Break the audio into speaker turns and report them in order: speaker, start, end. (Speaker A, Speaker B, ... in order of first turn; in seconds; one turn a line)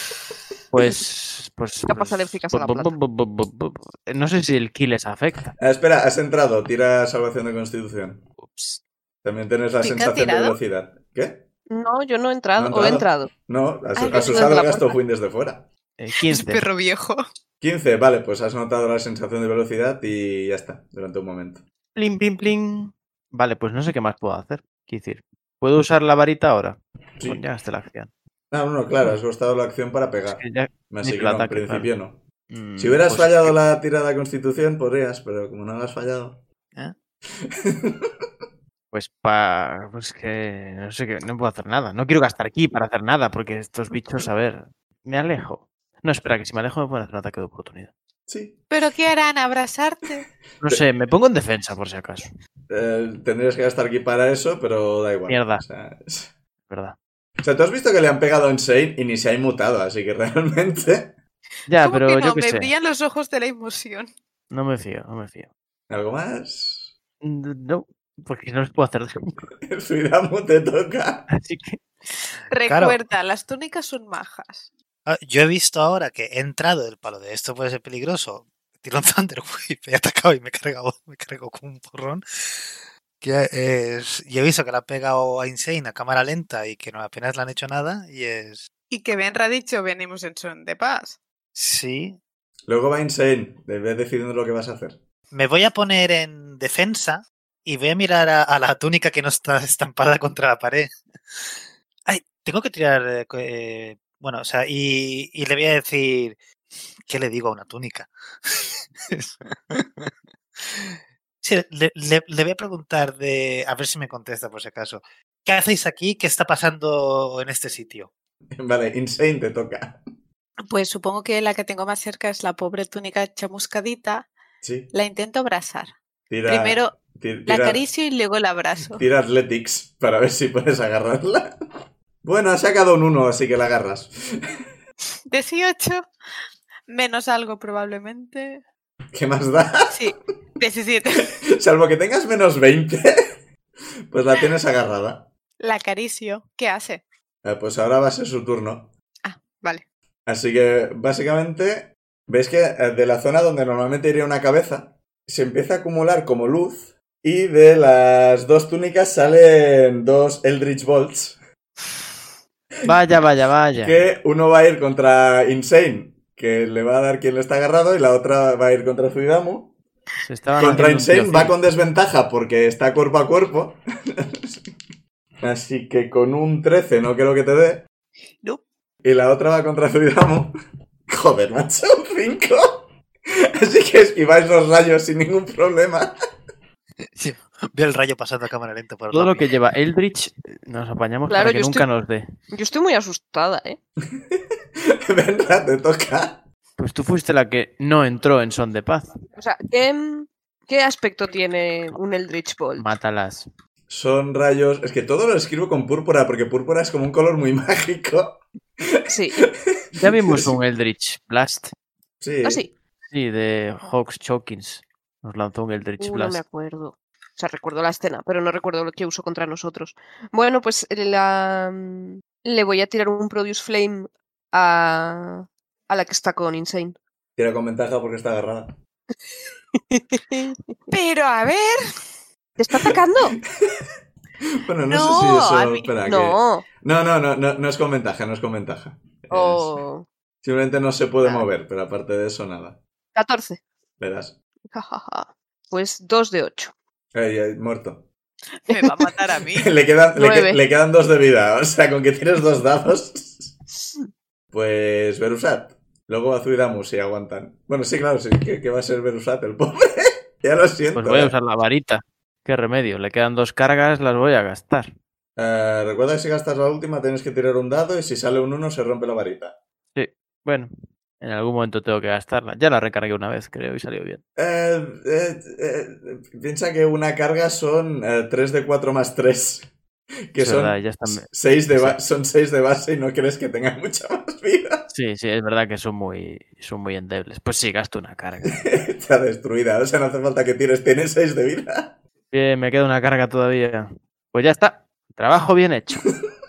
Speaker A: 0.7-5.5
Speaker B: 1.9-2.9
Speaker C: 5.6-8.3
Speaker A: 8.4-8.8
Speaker C: 9.2-11.4
Speaker D: 9.8-10.6
Speaker B: 11.7-13.3
Speaker C: 12.6-15.7
Speaker D: 14.0-14.6
Speaker B: 14.0-15.0
Speaker A: 16.0-16.7
Speaker D: 16.2-17.2
Speaker C: 17.6-21.6
Speaker A: 22.0-28.1
Speaker C: 28.5-32.2
Speaker A: 30.3-31.9
Speaker A: 32.5-33.6
Speaker C: 32.8-36.4
Speaker C: 37.5-38.1
Speaker A: 38.9-47.9
Speaker C: 48.3-48.6
Speaker D: 48.7-50.3
Speaker A: 50.6-52.3
Speaker C: 52.7-56.3
Speaker A: 55.3-55.6
Speaker A: 56.7-57.0
Speaker C: 57.4-61.1
Speaker A: 61.7-62.7
Speaker D: 61.8-64.1
Speaker A: 64.5-65.5
Speaker C: 65.9-66.9
Speaker A: 67.2-69.5
Speaker C: 69.6-71.3
Speaker A: 71.3-71.8
Speaker D: 72.3-74.7
Speaker E: 72.6-73.0
Speaker E: 75.1-88.7
Speaker D: 88.9-91.2
Speaker E: 91.5-92.2
Speaker C: 92.7-95.0
Speaker E: 95.3-106.4
Speaker E: 107.1-118.1
Speaker C: 118.5-120.0
Speaker D: 120.7-124.3
Speaker C: 124.6-124.9
Speaker D: 124.9-129.1
Speaker C: 126.3-127.8
Speaker C: 128.9-131.6
Speaker C: 132.2-134.1
Speaker D: 135.3-136.1
Speaker D: 136.9-138.6
Speaker C: 139.1-140.1
Speaker D: 139.9-141.3
Speaker C: 141.5-143.4
Speaker C: 144.1-145.3
Speaker D: 145.6-147.0
Speaker C: 147.4-148.9
Speaker D: 149.2-149.8
Speaker C: 150.3-161.4
Speaker A: 162.8-164.0
Speaker C: 163.8-169.7
Speaker A: 170.3-171.5
Speaker C: 170.6-174.8
Speaker C: 175.4-177.8
Speaker C: 179.0-180.5
Speaker C: 181.1-182.9
Speaker C: 183.6-186.1
Speaker E: 187.1-189.5
Speaker A: 189.1-192.2
Speaker B: 191.3-191.9
Speaker B: 192.5-193.8
Speaker C: 194.1-194.4
Speaker C: 195.1-196.4
Speaker A: 196.8-199.2
Speaker B: 199.4-202.9
Speaker A: 202.8-203.5
Speaker C: 203.9-210.6
Speaker B: 209.1-209.4
Speaker A: 209.9-211.7
Speaker C: 212.2-212.6
Speaker B: 212.4-212.7
Speaker A: 213.1-216.4
Speaker B: 216.0-227.0
Speaker C: 227.4-228.8
Speaker B: 229.8-230.8
Speaker D: 230.9-231.8
Speaker B: 232.6-233.4
Speaker C: 234.6-239.7
Speaker D: 234.9-235.9
Speaker B: 236.0-236.7
Speaker B: 239.3-240.1
Speaker C: 240.4-242.8
Speaker B: 241.2-241.5
Speaker B: 243.2-243.6
Speaker C: 244.0-244.3
Speaker B: 244.7-246.7
Speaker C: 247.1-248.1
Speaker D: 248.5-249.7
Speaker B: 248.7-249.1
Speaker C: 249.5-253.6
Speaker B: 250.2-250.6
Speaker C: 254.5-261.4
Speaker A: 260.9-264.9
Speaker C: 265.4-269.6
Speaker A: 269.9-274.2
Speaker C: 274.4-279.7
Speaker C: 280.3-284.9
Speaker A: 280.4-282.0
Speaker A: 284.9-288.7
Speaker C: 288.5-292.0
Speaker A: 292.3-296.1